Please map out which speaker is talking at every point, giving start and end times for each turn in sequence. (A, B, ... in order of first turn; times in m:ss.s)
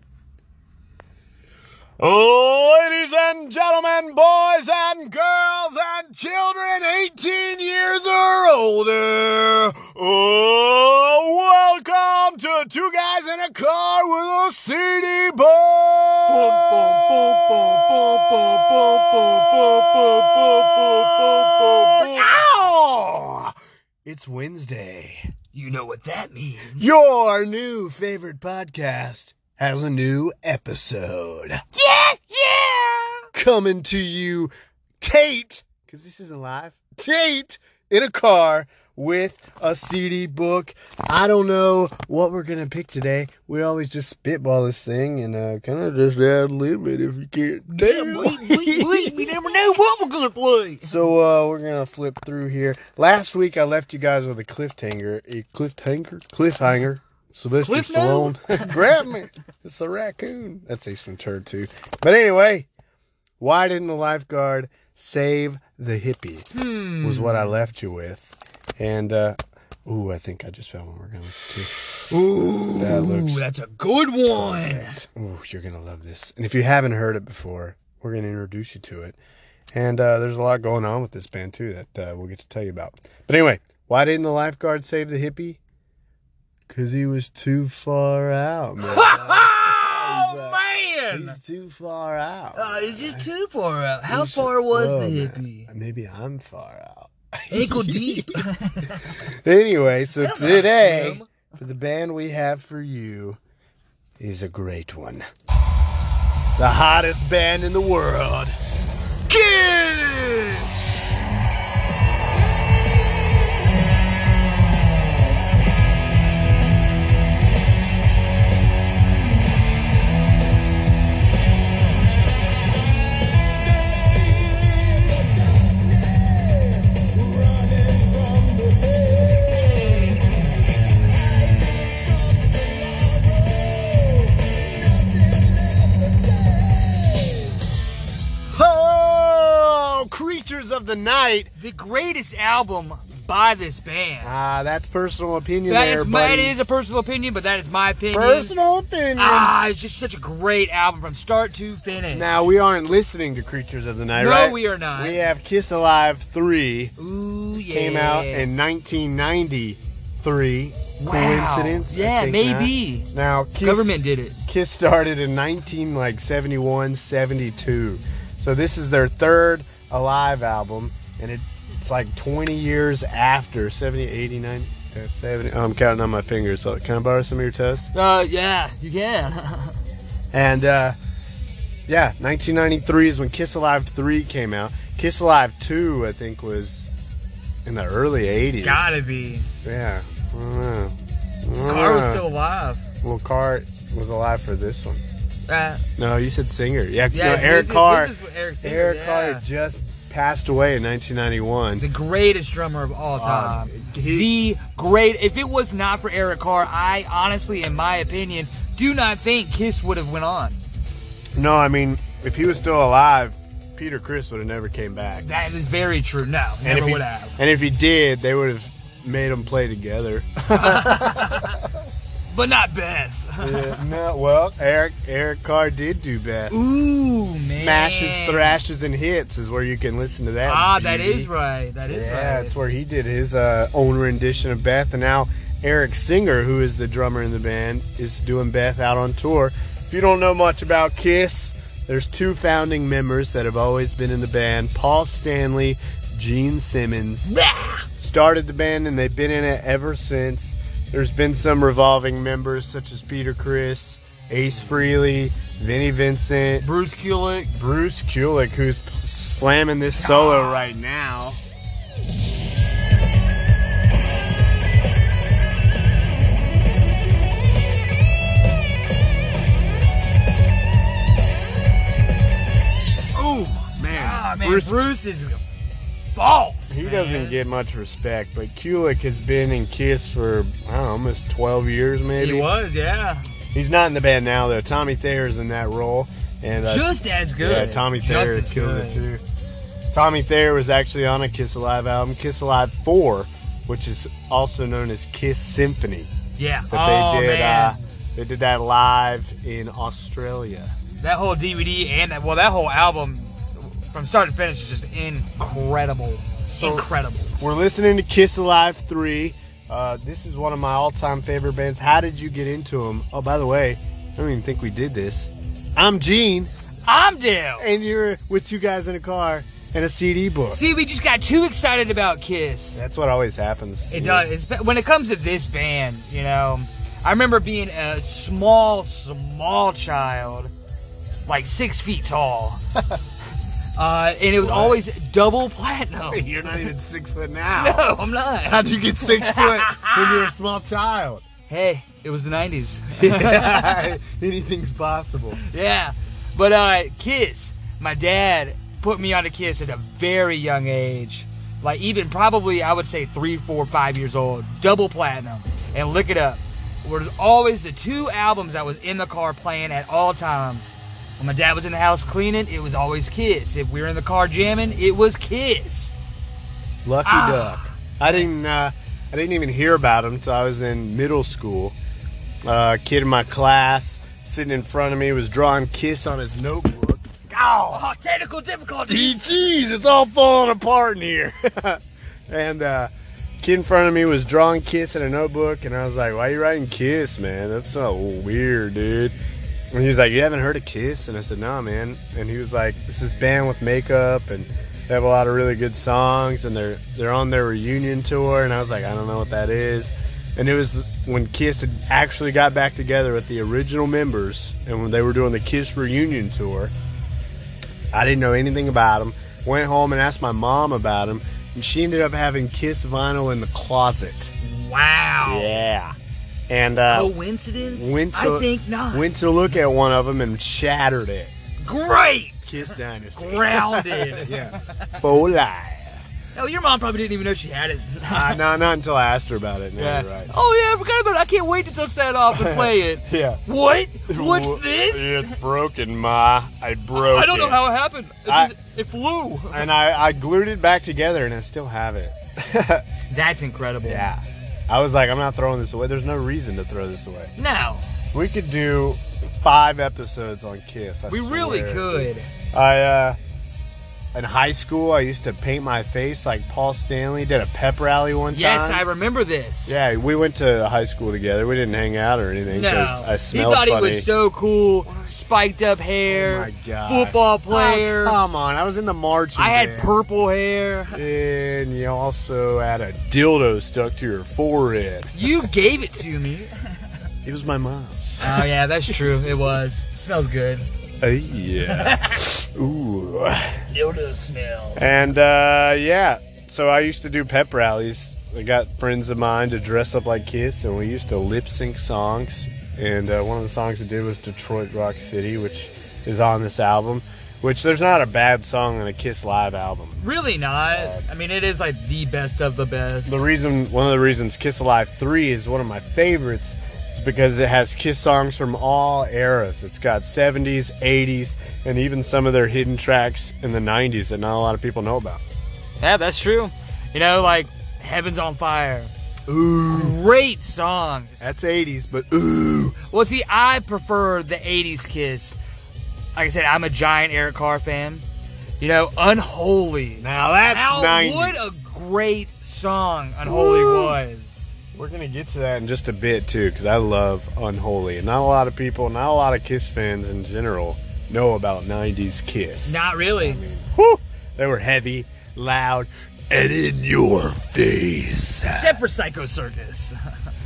0:02.0-0:25.3 A
0:16.3-0:22.3 B
0:25.5-0:26.8 B
0:26.8-0:31.6 A
0:31.7-0:33.3 B
0:33.3-0:49.4 A
0:47.7-0:51.0 B
0:50.8-1:02.7 A
0:57.6-0:59.0 B
1:03.4-1:06.5 A
1:06.5-1:07.5 B
1:07.0-1:11.7 A
1:11.9-1:15.0 B
1:12.8-1:13.4 A
1:14.3-1:19.2 A
1:19.7-1:25.6 A
1:26.7-1:30.6 A
1:28.8-1:31.4 B
1:31.1-1:33.2 A
1:32.5-1:35.7 B
1:34.1-1:38.4 A
1:37.5-1:39.2 B
1:39.1-1:43.4 A
1:40.2-1:41.3 B
1:44.2-1:45.3 A
1:46.6-1:48.6 A
1:49.3-1:50.7 A
2:04.2-2:09.6 A
2:11.8-2:17.3 A
2:18.5-2:21.5 A
2:21.6-2:24.3 B
2:24.2-2:26.6 A
2:25.7-2:28.5 B
2:28.1-2:29.5 A
2:29.2-2:32.4 B
2:32.1-2:36.9 A
2:34.1-2:35.2 B
2:37.0-2:38.5 B
2:37.6-2:57.9 A
2:41.0-2:43.1 B
2:43.6-2:44.4 B
2:57.9-2:59.8 B
3:00.3-3:01.0 A
3:01.9-3:06.9 A
3:07.6-3:09.0 A
3:08.6-3:09.5 B
3:09.6-3:12.2 A
3:11.6-3:12.8 B
3:13.0-3:15.0 A
3:15.5-3:15.8 B
3:16.0-3:21.8 A
3:17.1-3:19.4 B
3:21.8-3:30.6 B
3:23.2-3:24.3 A
3:31.4-3:35.3 A
3:35.2-3:37.4 B
3:36.6-3:41.7 A
3:40.5-3:41.6 B
3:42.3-3:43.8 B
3:43.4-3:46.6 A
3:46.5-3:48.6 B
3:47.4-3:51.3 A
3:50.4-3:52.5 B
3:51.9-4:07.3 A
4:07.3-4:07.8 B
4:08.0-4:16.7 A
4:16.6-4:17.5 B
4:17.5-4:21.4 A
4:20.0-4:20.6 B
4:33.2-4:34.8 A
4:33.9-4:35.4 B
4:36.1-4:37.4 B
4:36.7-4:42.5 A
4:42.2-4:43.2 B
4:43.5-4:49.2 A
4:46.6-4:49.0 B
4:49.9-4:56.1 A
4:56.4-4:57.8 B
4:56.7-5:00.7 A
5:01.0-5:07.3 B
5:06.6-5:06.9 A
5:07.4-5:16.5 A
5:16.8-5:17.7 B
5:17.6-5:20.6 A
5:20.5-5:22.8 B
5:22.7-5:24.3 A
5:23.9-5:30.5 B
5:31.2-5:32.6 B
5:33.8-5:36.6 B
5:34.4-5:34.8 A
5:36.1-5:37.9 A
5:37.5-5:40.3 B
5:38.4-5:41.2 A
5:41.5-5:43.9 B
5:43.0-5:45.4 A
5:45.4-6:05.9 B
6:06.8-6:11.8 A
6:07.0-6:08.2 B
6:12.4-6:17.8 A
6:17.6-6:19.5 B
6:18.9-6:29.2 A
6:29.7-6:46.7 A
6:47.9-6:54.3 A
6:54.4-6:55.6 B
6:55.2-6:55.9 A
6:56.5-7:01.3 A
6:56.9-6:59.1 B
7:01.6-7:05.0 B
7:02.4-7:06.0 A
7:06.3-7:08.4 B
7:08.1-7:10.3 A
7:09.8-7:15.4 B
7:12.3-7:13.4 A
7:14.1-7:17.6 A
7:16.9-7:19.7 B
7:18.3-7:18.5 A
7:19.5-7:22.8 A
7:23.1-7:24.1 B
7:23.8-7:27.3 A
7:27.4-7:27.8 B
7:28.1-7:33.2 A
7:31.1-7:32.3 B
7:34.1-7:38.8 A
7:38.3-7:39.8 B
7:39.6-7:44.0 A
7:42.5-7:48.2 B
7:44.8-7:45.2 A
7:46.1-7:49.9 A
7:49.4-7:51.0 B
7:50.9-7:55.5 A
7:55.1-7:56.7 B
7:57.2-7:59.3 A
7:58.2-8:00.6 B
8:01.0-8:03.6 A
8:01.6-8:02.2 B
8:03.7-8:04.8 B
8:04.8-8:20.0 A
8:20.0-8:23.2 B
8:20.6-8:21.0 A
8:23.0-8:35.2 A
8:35.8-8:38.9 B
8:39.3-8:40.0 A
8:39.7-8:41.2 B
8:41.2-8:42.8 A
8:42.8-8:45.4 B
8:46.2-8:48.0 B
8:48.6-8:54.5 B
8:50.0-8:51.4 A
8:53.2-8:54.0 A
8:54.7-9:08.8 A
9:02.6-9:03.4 B
9:08.5-9:10.0 B